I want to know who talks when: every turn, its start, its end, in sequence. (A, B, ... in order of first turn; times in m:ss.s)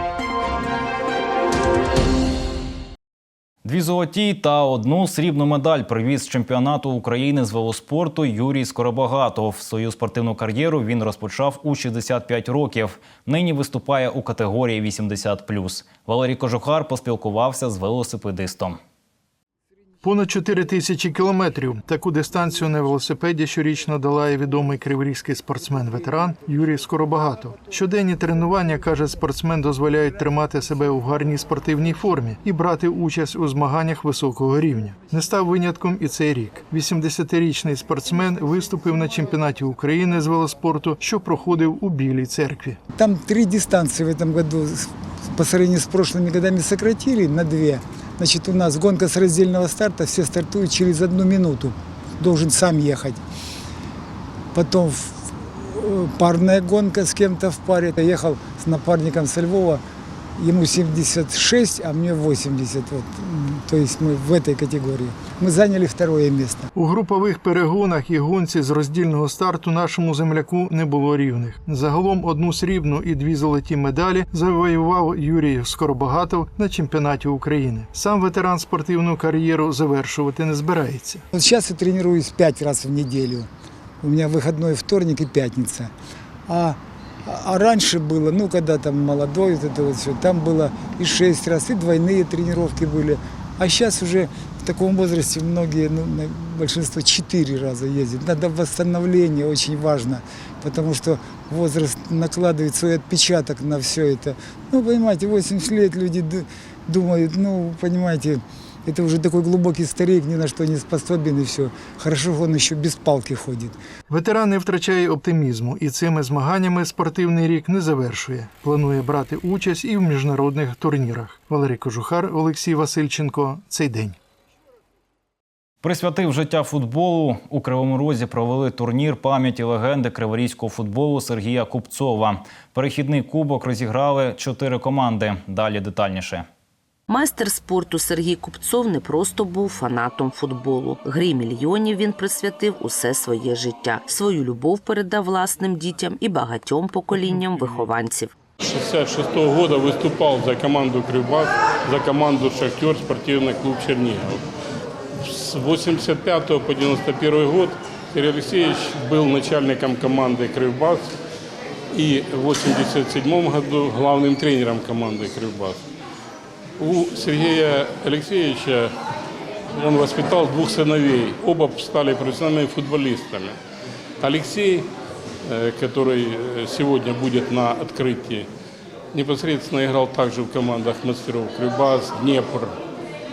0:03.6-0:18.8 A
0:20.0-0:42.8 B
0:43.0-0:53.2 C
0:54.5-0:59.8 C
1:00.4-1:06.7 C
1:06.8-1:21.2 B
1:21.3-1:23.5 C
1:24.0-1:25.9 C
1:26.5-1:53.8 C
1:54.1-2:04.2 B
2:05.8-2:16.5 A
2:17.1-2:28.3 D
2:27.2-2:27.8 E
2:28.6-2:34.4 E
2:35.2-2:41.1 E
2:41.9-2:45.8 E
2:46.8-2:48.9 E
2:49.7-2:53.6 E
2:54.2-2:54.9 E
2:55.4-2:58.5 E
2:59.1-3:02.7 E